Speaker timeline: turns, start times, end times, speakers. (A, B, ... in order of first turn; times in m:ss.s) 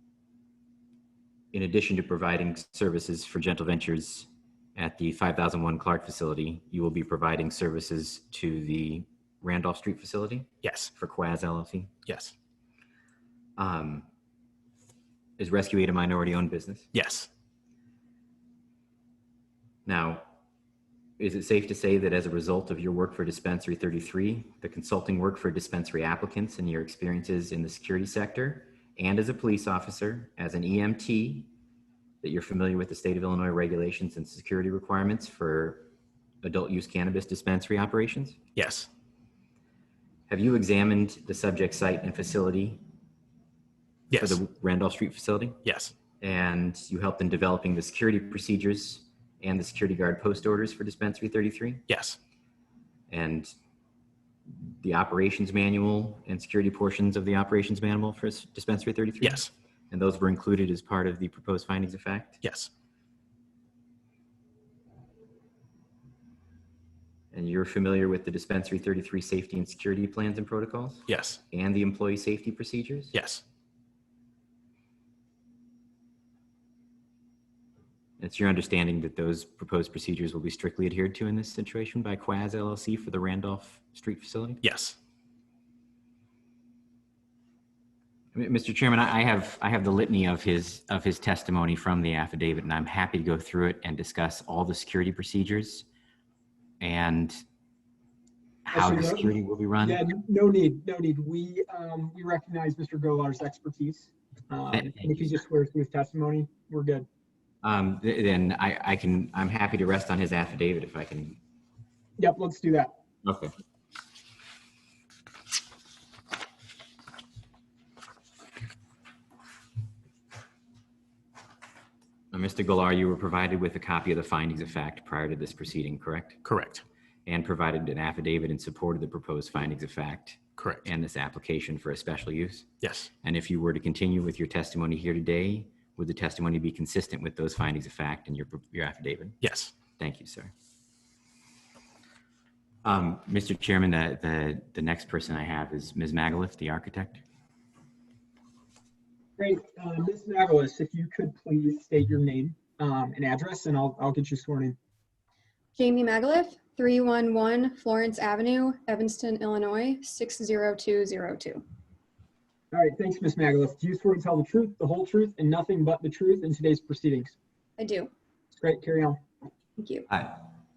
0:01.5-0:11.9 A
0:10.6-0:10.9 B
0:12.0-0:12.3 B
0:13.6-0:14.0 A
0:15.4-0:16.9 A
0:16.9-0:17.3 B
0:19.8-0:20.2 A
0:21.2-0:31.5 A
0:32.2-0:35.9 A
0:36.4-0:38.4 A
0:38.6-0:38.9 B
0:40.3-0:42.8 A
0:44.1-0:44.4 B
0:44.1-0:45.6 A
0:45.6-0:45.9 B
0:46.2-0:51.8 A
0:51.9-0:52.2 B
0:53.1-0:53.5 A
0:54.6-1:02.4 A
0:59.2-0:59.5 B
1:02.4-1:02.7 B
1:07.3-1:13.1 A
1:11.1-1:11.4 B
1:13.1-1:13.4 B
1:18.2-1:24.6 A
1:24.6-1:25.0 B
1:28.3-1:35.8 A
1:36.8-1:37.4 A
1:38.6-1:40.0 A
1:38.7-1:39.3 C
1:39.8-1:47.0 C
1:44.7-1:45.3 A
1:47.6-1:51.4 A
1:52.2-1:52.9 C
1:53.2-1:53.5 A
2:02.3-2:06.4 A
2:06.4-2:06.8 B
2:07.2-2:12.7 A
2:10.6-2:10.8 B
2:12.8-2:13.1 B
2:13.2-2:19.4 A
2:19.4-2:19.7 B
2:20.0-2:20.5 A
2:22.8-2:27.2 A
2:29.4-2:34.8 C
2:35.8-2:41.6 D
2:42.7-2:47.3 C
2:47.8-2:48.1 D
2:48.6-2:49.2 C
2:49.8-2:50.1 D